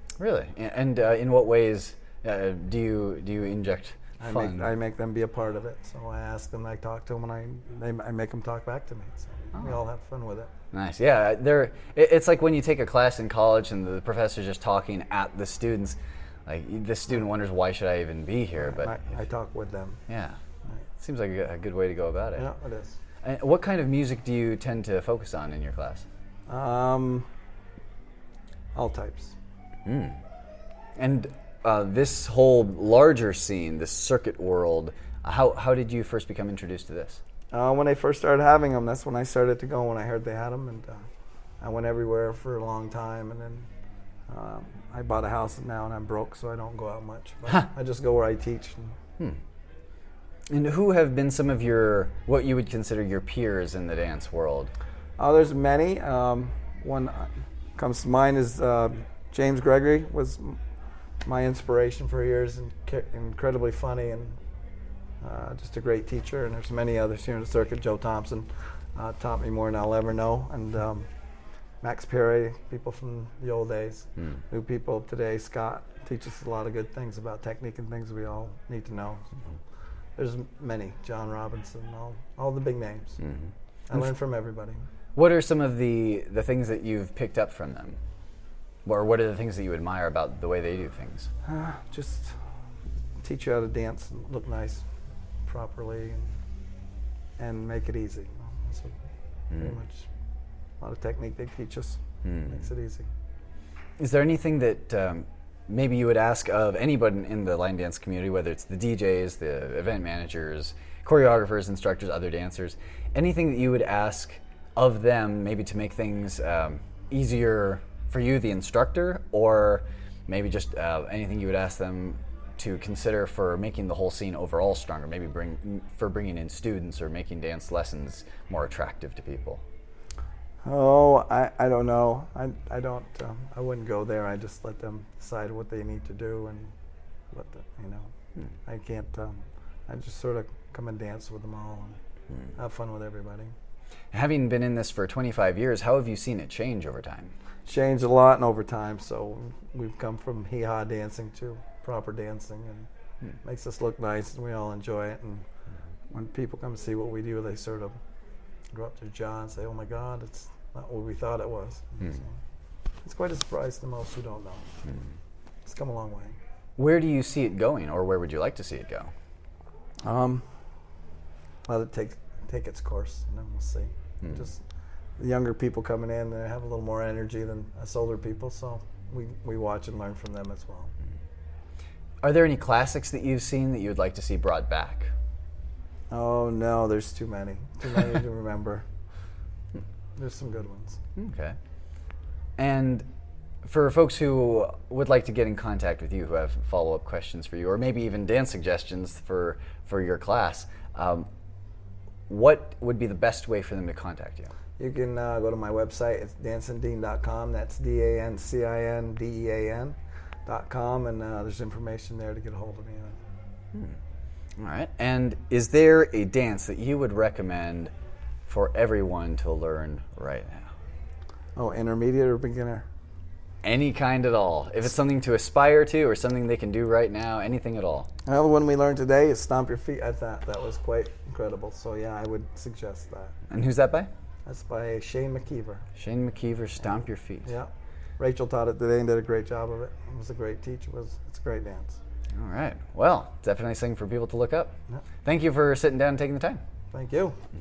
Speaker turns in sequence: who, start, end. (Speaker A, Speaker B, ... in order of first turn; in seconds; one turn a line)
Speaker A: 0.2-4.7
Speaker B: 4.2-10.5
Speaker A: 10.7-19.0
Speaker B: 18.6-20.0
Speaker A: 20.1-20.4
Speaker A: 21.0-22.4
Speaker B: 22.3-23.0
Speaker A: 23.2-26.1
Speaker B: 26.5-27.3
Speaker B: 28.8-29.4
Speaker A: 29.9-30.2
Speaker A: 31.0-37.2
Speaker B: 37.5-41.0
Speaker B: 41.6-43.7
Speaker B: 44.3-49.0
Speaker A: 50.5-54.7
Speaker B: 55.2-60.6
Speaker B: 61.2-64.4
Speaker B: 65.2-71.1
Speaker B: 71.8-79.2
Speaker B: 80.2-83.2
Speaker A: 83.2-83.5
Speaker B: 83.9-84.8
Speaker A: 85.2-88.0
Speaker A: 88.8-91.3
Speaker B: 91.5-92.3
Speaker B: 93.2-94.8
Speaker B: 95.5-96.4
Speaker B: 97.4-99.0
Speaker B: 99.5-100.1
Speaker B: 100.8-103.1
Speaker A: 102.2-102.5
Speaker A: 104.0-129.6
Speaker B: 130.6-136.7
Speaker B: 137.3-138.1
Speaker B: 138.7-142.0
Speaker B: 142.6-143.5
Speaker A: 144.1-147.3
Speaker B: 147.7-152.9
Speaker B: 153.4-155.4
Speaker B: 156.1-158.0
Speaker B: 158.7-162.4
Speaker B: 163.0-164.7
Speaker B: 165.7-166.4
Speaker A: 166.8-169.1
Speaker B: 170.1-170.4
Speaker B: 171.7-174.6
Speaker B: 175.2-180.9
Speaker A: 182.2-185.1
Speaker B: 186.1-188.8
Speaker B: 190.2-191.0
Speaker A: 191.2-191.6
Speaker A: 192.6-193.1
Speaker A: 193.6-201.3
Speaker A: 202.3-204.5
Speaker B: 204.8-213.2
Speaker A: 214.6-217.9
Speaker A: 218.5-220.7
Speaker B: 221.6-222.8
Speaker A: 223.6-228.1
Speaker B: 228.3-233.3
Speaker A: 233.5-234.1
Speaker B: 234.5-235.8
Speaker A: 236.0-237.5
Speaker B: 237.4-242.0
Speaker A: 242.3-246.6
Speaker B: 246.9-247.4